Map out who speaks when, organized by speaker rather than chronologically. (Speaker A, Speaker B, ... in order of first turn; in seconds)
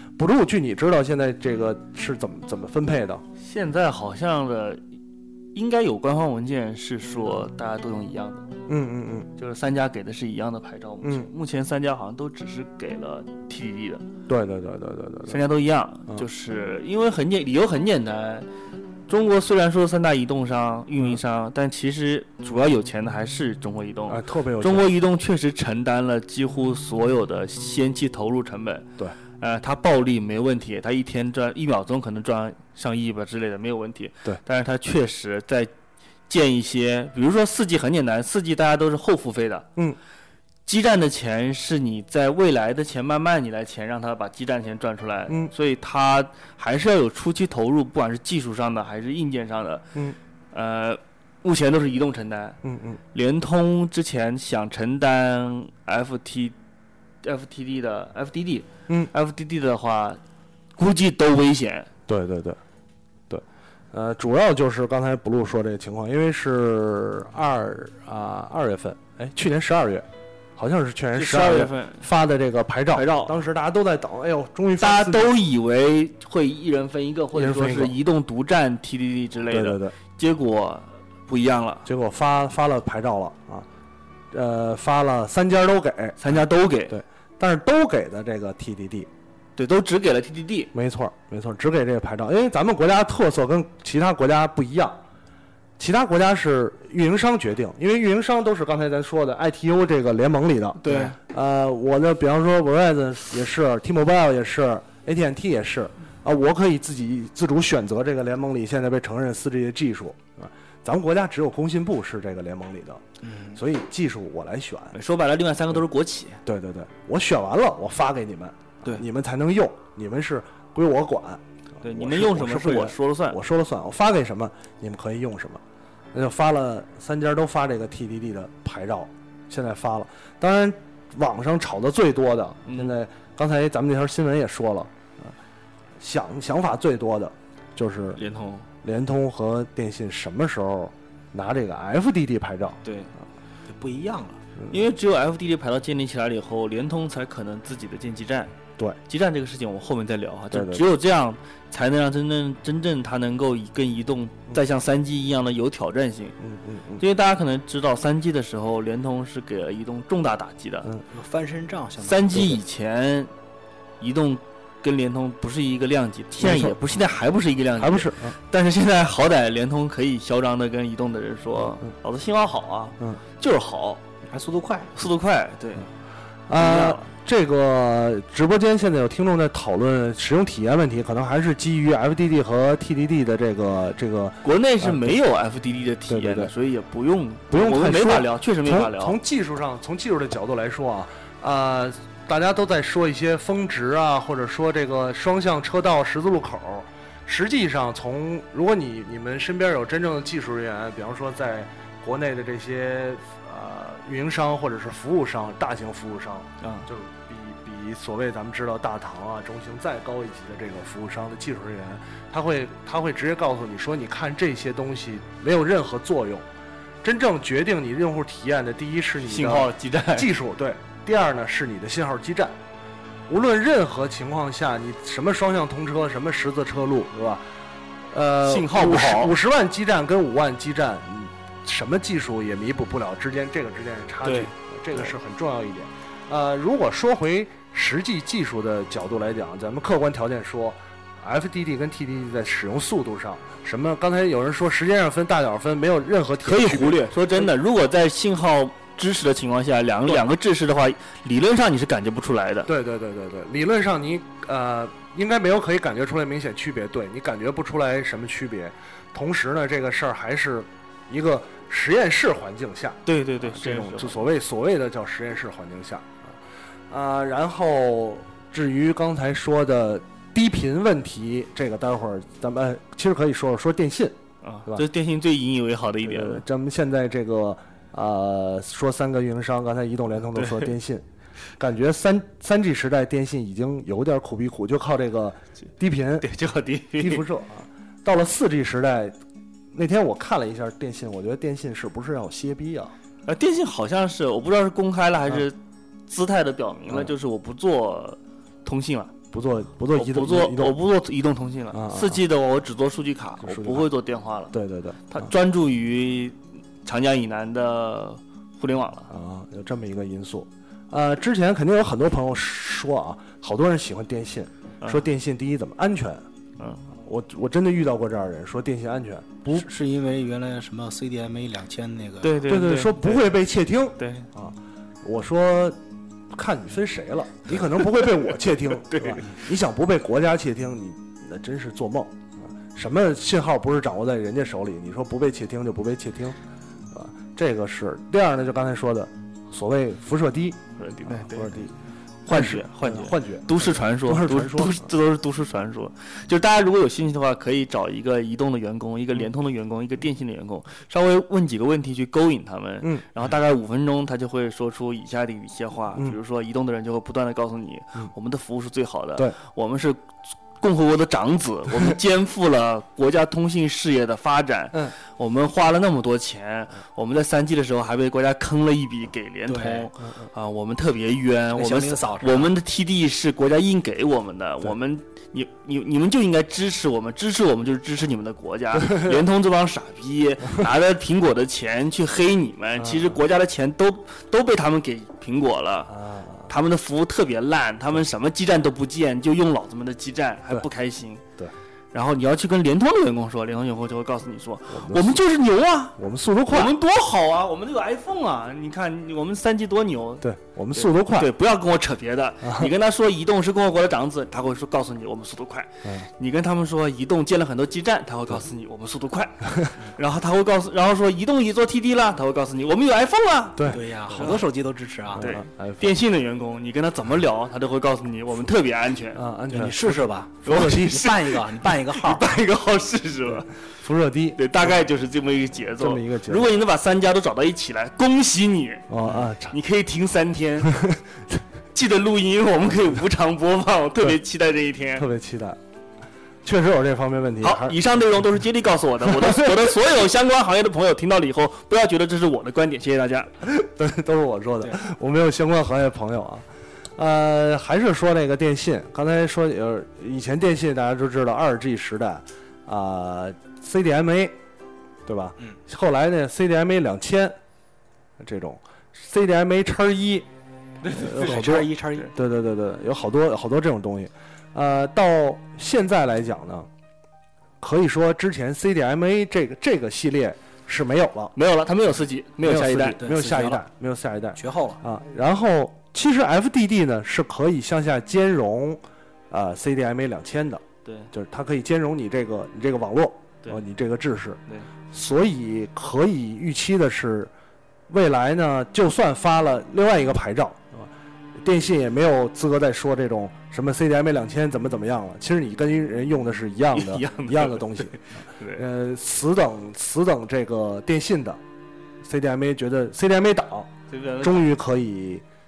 Speaker A: 0.2-3.2, 8.7-9.3, 11.0-11.3, 14.3-15.4, 24.1-24.9, 52.6-53.0, 62.1-62.6, 63.3-75.4, 77.3-78.0, 79.5-79.9, 81.8-83.7, 84.3-89.1, 90.7-95.0, 95.8-114.9, 116.4-125.6, 126.1-135.3, 136.0-138.2, 138.8-142.8, 150.5-150.8, 156.4-157.0, 166.3-166.8, 167.8-168.3, 176.5-185.2, 186.1-186.5, 187.5-216.5, 217.0-222.6, 223.3-227.4, 228.1-247.5, 252.7-266.4, 266.9-274.9, 276.0-281.0, 281.6-286.3, 286.9-289.2, 289.7-292.9, 299.3-300.8, 301.7-302.2, 303.4-303.9, 304.5-305.3, 309.1-316.2, 316.9-319.7, 322.4-325.8, 326.3-336.4, 336.9-341.7, 342.2-344.9, 352.8-353.1, 370.0-370.3, 378.8-379.2, 382.8-383.2, 385.9-386.5, 394.7-395.2, 395.9-396.7, 400.2-401.3, 402.4-402.7, 413.6-414.4, 415.1-416.0, 419.1-421.0, 423.8-424.7, 425.8-426.5, 428.9-429.6, 430.6-431.4, 434.9-435.6, 436.4-437.8, 439.0-439.7, 443.4-454.4, 455.1-457.4, 458.2-460.3, 460.9-466.7, 467.6-471.3, 472.4-487.3, 487.9-501.4, 502.0-505.2
Speaker B: 3.4-4.8, 5.5-8.5, 9.4-14.0, 15.3-18.5, 19.1-28.9, 29.4-35.7, 36.3-39.7, 40.6-49.9, 50.5-52.6, 53.1-56.5, 57.2-60.2, 60.8-61.9, 71.1-72.1, 72.9-73.3, 74.8-81.8, 86.2-87.0, 89.6-90.7, 100.8-101.1, 114.9-116.4, 121.8-123.4, 132.7-132.9, 138.2-138.7, 142.8-143.1, 144.7-148.5, 149.1-156.3, 157.0-160.9, 162.0-163.3, 164.0-174.0, 174.9-175.9, 176.6-177.0, 184.4-189.2, 206.6-206.9, 219.2-220.3, 228.4-229.3, 234.2-235.1, 246.4-252.7, 263.1-264.2, 274.4-276.4, 280.4-280.7, 286.2-287.2, 293.2-295.6, 296.1-299.1, 299.9-304.5, 305.1-309.1, 316.6-316.9, 322.2-323.3, 324.0-324.3, 327.9-328.1, 328.7-329.2, 340.8-341.5, 342.2-385.9, 386.5-391.2, 391.9-395.9, 396.5-414.4, 415.2-419.2, 420.4-423.6, 424.4-428.9, 429.5-430.8, 431.7-435.1, 437.4-443.3, 460.8-461.4, 471.3-473.0, 480.8-481.1, 496.7-498.6, 503.9-504.6
Speaker C: 100.9-101.1, 113.2-113.6, 143.7-144.4, 161.1-162.5, 174.3-174.9, 319.5-322.4, 369.5-369.9, 371.5-372.5, 413.7-415.3, 419.5-422.3, 460.9-462.1, 473.0-473.6, 474.4-474.8